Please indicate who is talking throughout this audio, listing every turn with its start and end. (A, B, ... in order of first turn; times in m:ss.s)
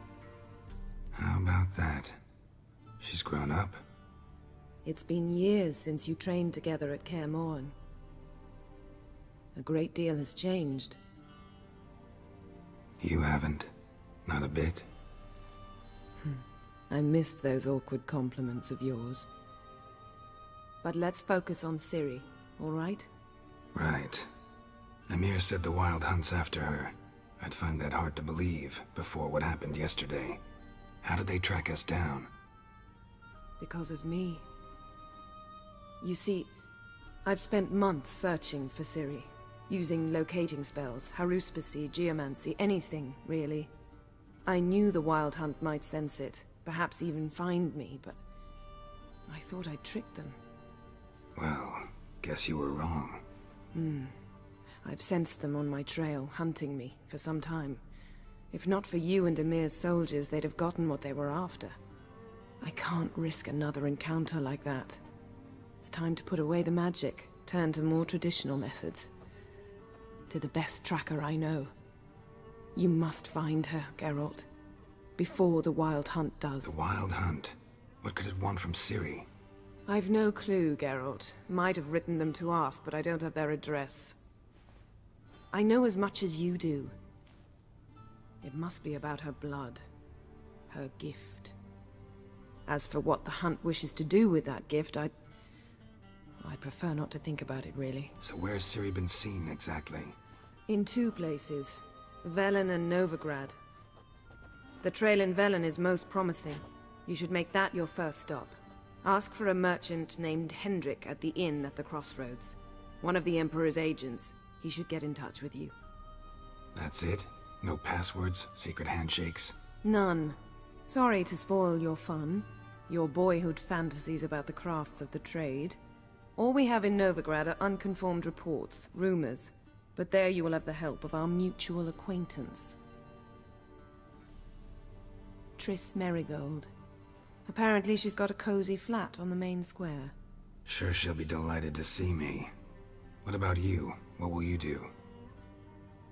0:01.1-0:02.2 A
0:03.0-0:03.8 A
0:04.8-0:07.7 B
0:09.6-0:11.0 B
0:13.0-0:13.7 A
0:14.2-0:14.9 A
0:16.2-0:19.3 B
0:20.8-0:23.1 B
0:23.7-0:24.3 A
0:25.1-0:30.4 A
0:31.0-0:32.3 A
0:33.6-0:34.4 B
0:36.0-0:36.5 B
0:37.2-0:43.7 B
0:44.4-0:48.2 B
0:49.3-0:50.4 B
0:51.3-0:53.2 A
0:53.7-0:54.2 B
0:54.8-0:57.8 B
0:58.5-1:01.8 B
1:02.6-1:05.0 B
1:05.8-1:09.1 B
1:10.3-1:11.7 B
1:12.7-1:14.5 B
1:15.2-1:16.7 B
1:16.6-1:19.3 A
1:19.9-1:24.2 B
1:25.5-1:26.9 B
1:28.4-1:29.8 B
1:30.7-1:31.5 B
1:32.7-1:35.1 B
1:36.4-1:38.1 B
1:38.2-1:40.1 A
1:40.7-1:43.6 B
1:44.8-1:55.7 B
1:56.7-1:59.5 A
1:59.8-2:05.8 B
2:06.4-2:12.8 B
2:15.6-2:16.7 B
2:17.5-2:20.1 B
2:20.6-2:22.5 A
2:23.2-2:24.9 A